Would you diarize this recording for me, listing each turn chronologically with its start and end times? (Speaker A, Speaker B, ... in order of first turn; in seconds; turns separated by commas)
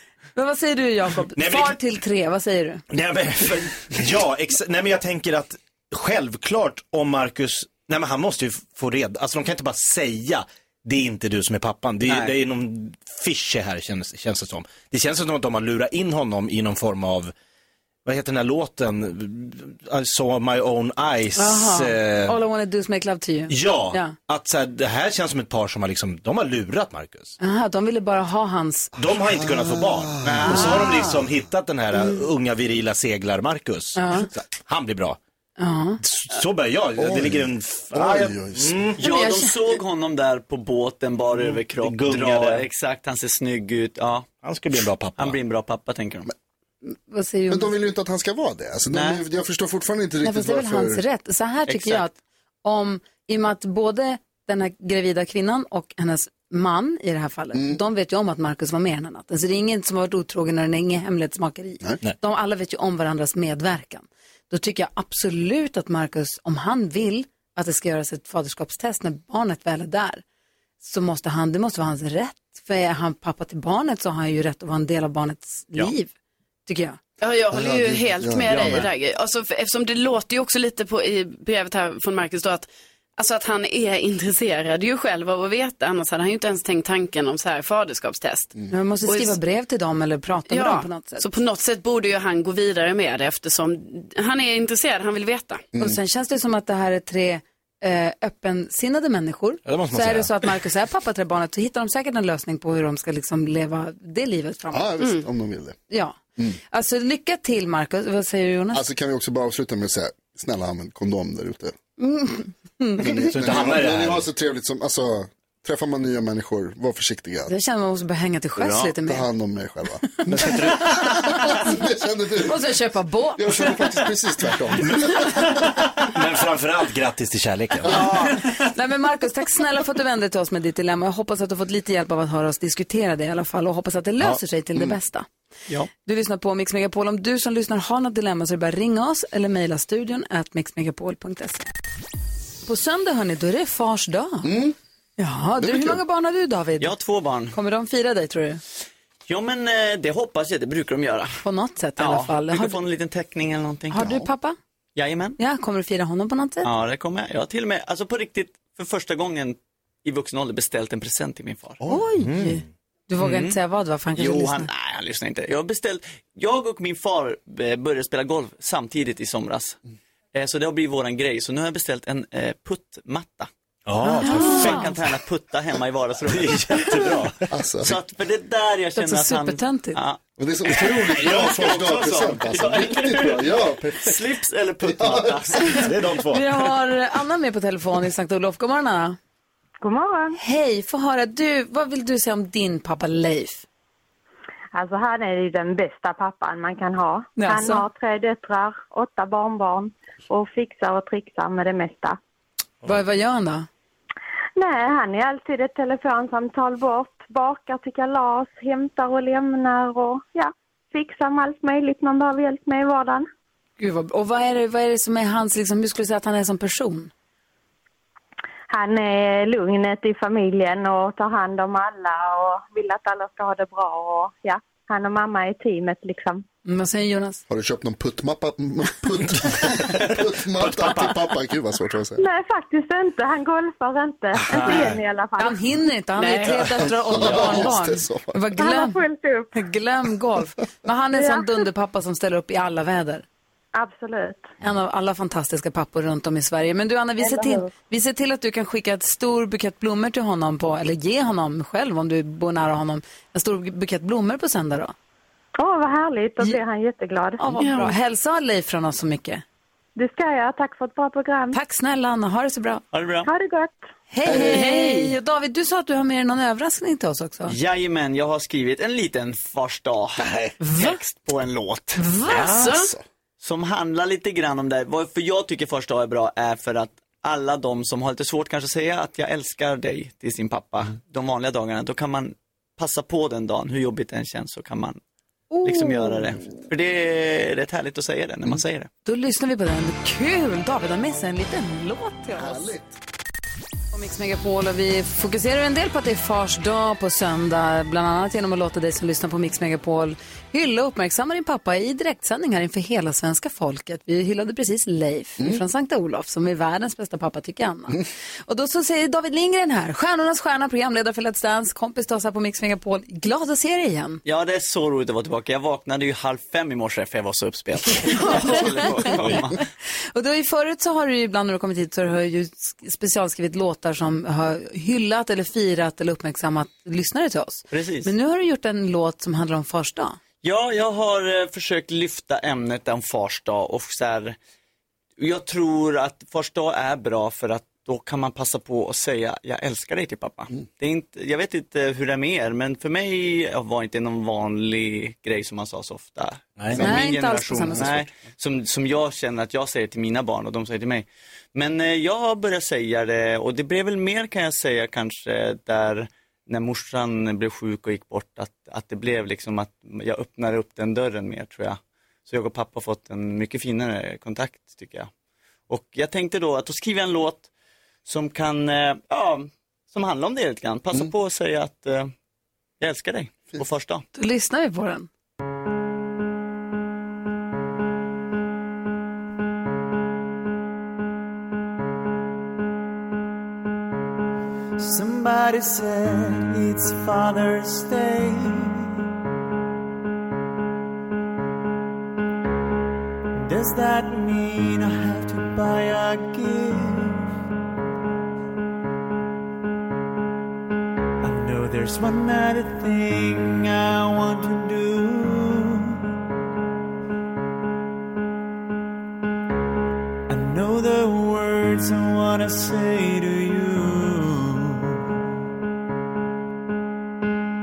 Speaker A: 0.3-2.8, Speaker B: 1.3-1.8, Speaker B: 2.9-17.3, Speaker C: 12.0-12.3, Speaker B: 18.1-22.4, Speaker A: 21.3-24.1, Speaker B: 23.5-27.3, Speaker A: 27.4-28.9, Speaker B: 28.9-35.2, Speaker D: 29.3-30.9, Speaker C: 30.2-31.1, Speaker A: 30.4-31.0, Speaker A: 34.0-34.3, Speaker A: 35.6-36.0, Speaker B: 36.0-39.0, Speaker D: 37.0-39.0, Speaker C: 39.0-44.3, Speaker A: 39.0-39.8, Speaker B: 41.3-42.6, Speaker B: 44.4-45.4, Speaker C: 45.1-46.3, Speaker A: 47.1-47.7, Speaker D: 47.5-51.0, Speaker C: 48.9-49.2, Speaker A: 50.2-70.2, Speaker C: 51.7-52.0, Speaker D: 57.5-57.8, Speaker A: 70.8-76.1, Speaker A: 76.7-77.0, Speaker E: 77.2-88.5, Speaker D: 77.5-78.7, Speaker A: 88.7-91.3, Speaker E: 89.0-89.4, Speaker E: 90.5-95.6, Speaker A: 95.8-104.9, Speaker B: 99.7-100.3, Speaker D: 104.7-105.8, Speaker A: 105.9-106.2, Speaker A: 106.7-108.8, Speaker D: 108.7-111.7, Speaker A: 112.0-113.0, Speaker D: 113.0-117.5, Speaker B: 113.2-114.3, Speaker A: 117.5-119.2, Speaker C: 118.5-118.9, Speaker D: 119.0-122.7, Speaker B: 120.3-121.3, Speaker A: 120.9-121.7, Speaker A: 122.4-124.0, Speaker D: 123.3-125.6, Speaker B: 124.8-128.1, Speaker A: 128.5-135.3, Speaker A: 135.9-141.7, Speaker A: 142.7-144.5, Speaker D: 144.4-144.7, Speaker A: 145.2-146.9, Speaker D: 145.6-146.0, Speaker C: 146.8-147.6, Speaker A: 147.5-148.6, Speaker C: 149.3-151.4, Speaker A: 151.4-152.8, Speaker C: 152.0-154.2, Speaker A: 153.9-154.6, Speaker C: 154.9-155.4, Speaker A: 155.4-156.7, Speaker C: 156.6-161.8, Speaker A: 161.9-164.7, Speaker B: 162.2-162.6, Speaker C: 163.2-163.6, Speaker C: 164.1-169.8, Speaker C: 170.3-173.5, Speaker B: 173.9-175.1, Speaker C: 174.0-177.2, Speaker A: 174.2-174.9, Speaker B: 176.2-177.5, Speaker D: 177.5-178.0, Speaker C: 177.8-180.2, Speaker A: 178.9-180.0, Speaker D: 180.4-184.2, Speaker C: 180.7-183.4, Speaker B: 181.0-182.4, Speaker C: 184.0-186.0, Speaker D: 184.8-185.6, Speaker B: 185.6-186.5, Speaker A: 186.3-189.2, Speaker F: 189.8-190.4, Speaker A: 190.4-193.6, Speaker F: 194.7-202.2, Speaker A: 197.3-197.8, Speaker A: 202.8-203.7, Speaker F: 204.6-213.3, Speaker A: 213.8-217.1, Speaker F: 218.7-226.4, Speaker A: 226.6-227.4, Speaker D: 227.5-232.2, Speaker B: 229.8-231.2, Speaker F: 232.2-235.6, Speaker B: 234.4-235.0, Speaker A: 235.4-239.0, Speaker E: 236.2-236.5, Speaker D: 237.0-238.4, Speaker F: 238.6-239.5, Speaker A: 239.5-243.2, Speaker F: 241.1-241.4, Speaker F: 243.8-244.5, Speaker A: 244.6-254.9, Speaker F: 247.2-247.7, Speaker F: 255.6-257.4, Speaker A: 257.4-259.4, Speaker E: 257.6-257.9, Speaker F: 259.9-261.6, Speaker A: 261.5-262.8, Speaker C: 262.9-263.3, Speaker F: 263.2-263.8, Speaker A: 264.1-267.5, Speaker D: 264.2-264.6, Speaker E: 264.3-265.1, Speaker C: 267.5-272.1, Speaker B: 270.2-270.5, Speaker A: 270.6-271.0, Speaker A: 271.9-272.7, Speaker B: 272.3-272.7, Speaker E: 272.3-272.9, Speaker C: 273.4-285.0, Speaker A: 285.5-286.3, Speaker C: 285.6-288.9, Speaker A: 289.0-292.7, Speaker D: 292.3-292.9, Speaker A: 293.9-314.2, Speaker C: 314.2-319.6, Speaker A: 318.2-319.4, Speaker B: 319.0-319.4, Speaker A: 320.1-330.2, Speaker C: 327.7-328.1, Speaker C: 330.4-334.4, Speaker C: 335.2-365.1, Speaker B: 346.6-346.9, Speaker A: 346.8-347.9, Speaker C: 365.7-367.5, Speaker C: 368.0-372.1, Speaker C: 372.8-374.0, Speaker A: 374.1-375.1, Speaker G: 384.8-388.9, Speaker G: 393.4-397.2, Speaker G: 401.2-406.0, Speaker G: 410.3-415.1